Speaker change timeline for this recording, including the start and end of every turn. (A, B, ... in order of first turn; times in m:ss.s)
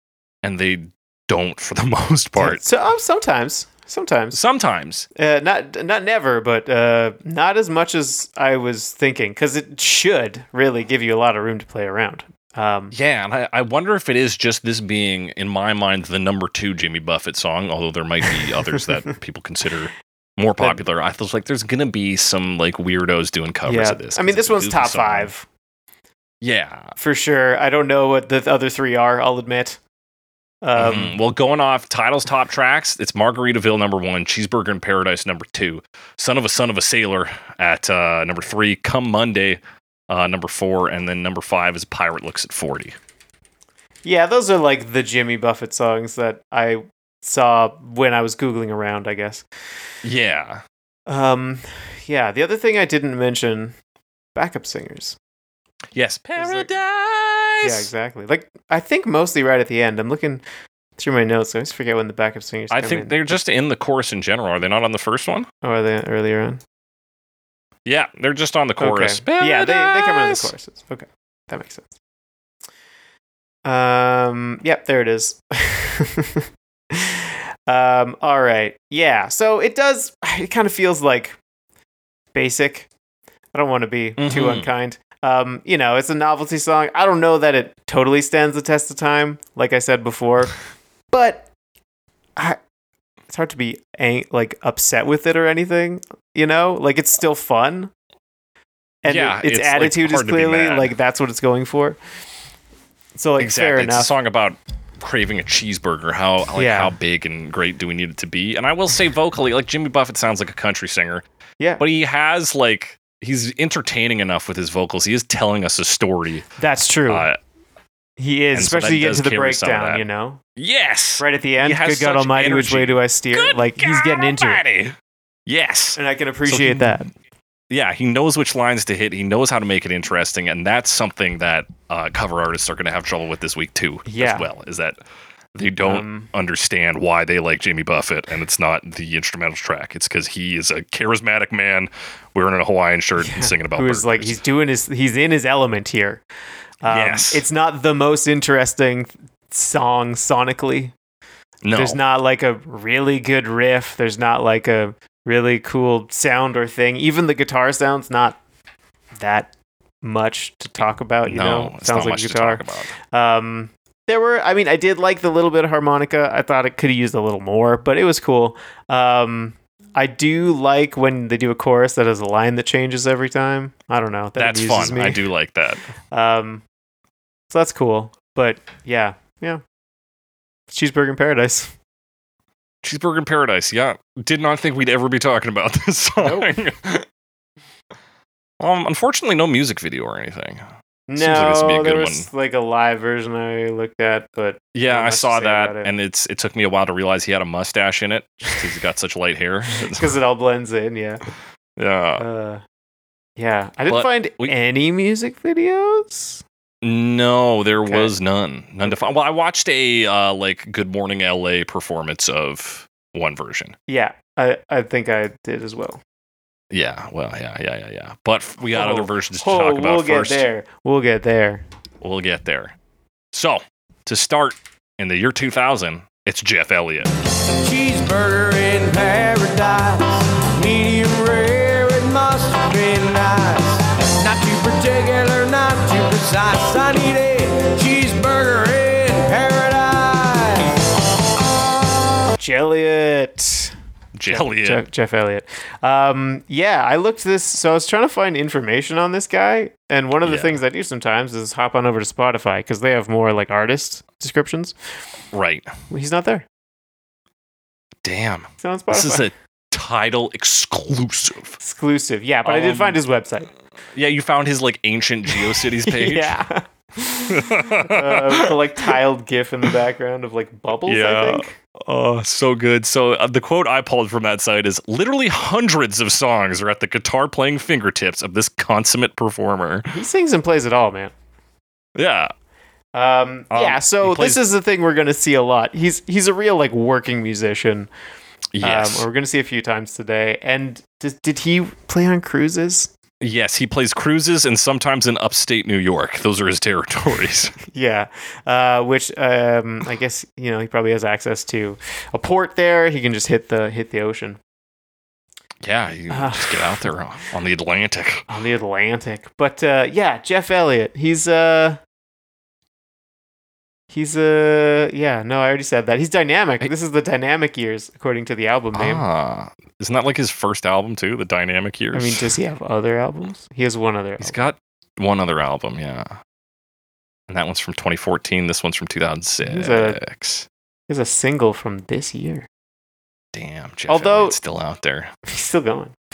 0:00.4-0:02.6 A
0:02.4-0:04.4 B
0:04.3-0:05.1 A
0:05.2-0:12.9 B
0:12.9-0:25.3 A
0:23.7-0:25.5 B
0:26.4-0:26.9 A
0:27.0-0:29.8 B
0:30.6-0:31.2 B
0:30.8-0:43.0 A
0:44.0-0:49.5 B
0:50.0-0:50.6 A
0:51.1-0:53.8 B
0:54.4-0:55.2 B
0:55.9-0:57.9 A
0:56.4-0:56.7 B
0:57.6-1:00.4 B
1:01.0-1:03.4 B
1:02.7-1:05.5 A
1:05.6-1:06.6 B
1:07.9-1:10.5 A
1:08.8-1:12.0 B
1:13.6-1:21.4 B
1:22.3-1:22.9 B
1:23.5-1:30.5 B
1:24.2-1:24.7 A
1:31.1-1:31.5 B
1:33.3-1:37.9 B
1:39.0-1:42.0 B
1:39.1-1:40.9 A
1:43.2-1:44.1 B
1:43.4-1:51.2 A
1:46.6-1:47.0 B
1:51.8-1:56.5 A
1:56.6-1:57.3 B
1:57.1-1:57.4 A
1:58.2-2:00.4 B
1:58.5-2:00.0 A
2:00.6-2:05.0 A
2:01.2-2:04.6 B
2:05.5-2:07.0 A
2:06.0-2:07.1 B
2:07.7-2:15.0 A
2:14.1-2:14.5 B
2:15.6-2:24.4 A
2:15.8-2:16.3 B
2:23.2-2:26.2 B
2:26.8-2:30.9 B
2:26.9-2:27.4 A
2:31.6-2:32.0 A
2:31.8-2:38.4 B
2:39.2-2:39.5 B
2:40.0-2:55.2 B
2:41.2-2:42.9 A
2:54.4-2:55.9 A
2:56.1-2:56.6 B
2:57.5-2:59.6 B
3:00.7-3:01.7 B
3:02.8-3:07.1 A
3:06.2-3:06.6 B
3:08.6-3:10.6 A
3:11.1-3:15.9 B
3:11.2-3:12.3 A
3:14.7-3:20.1 A
3:19.9-3:21.2 B
3:21.8-3:22.2 A
3:22.2-3:22.6 B
3:23.4-3:26.4 B
3:23.9-3:24.5 A
3:26.8-3:33.8 A
3:27.9-3:28.1 B
3:33.9-3:36.0 B
3:36.7-3:40.4 A
3:38.7-3:41.6 B
3:42.0-3:42.8 A
3:43.3-3:47.1 A
3:47.6-4:00.8 C
4:02.4-4:03.8 B
4:04.2-4:04.8 A
4:04.3-4:14.8 B
4:10.2-4:10.6 A
4:15.3-4:15.7 A
4:15.9-4:16.5 B
4:18.0-4:21.6 A
4:18.6-4:19.3 B
4:21.6-4:23.5 B
4:22.4-4:23.0 A
4:23.9-4:26.4 A
4:25.3-4:31.6 B
4:27.3-4:28.9 A
4:30.9-4:40.0 A
4:39.9-4:41.1 B
4:42.0-4:42.3 A
4:42.9-4:47.9 B
4:43.5-4:44.4 A
4:48.5-4:49.1 A
4:48.6-4:52.9 B
4:53.2-4:57.6 A
4:57.6-5:04.4 B
5:05.6-5:08.2 A
5:06.1-5:06.9 B
5:08.3-5:11.8 B
5:13.9-5:19.0 B
5:18.7-5:22.3 A
5:21.9-5:24.4 B
5:24.2-5:26.2 A
5:27.3-5:30.5 A
5:29.4-5:30.0 B
5:30.9-5:32.5 B
5:33.3-5:35.1 A
5:33.9-5:34.4 B
5:35.3-5:36.0 B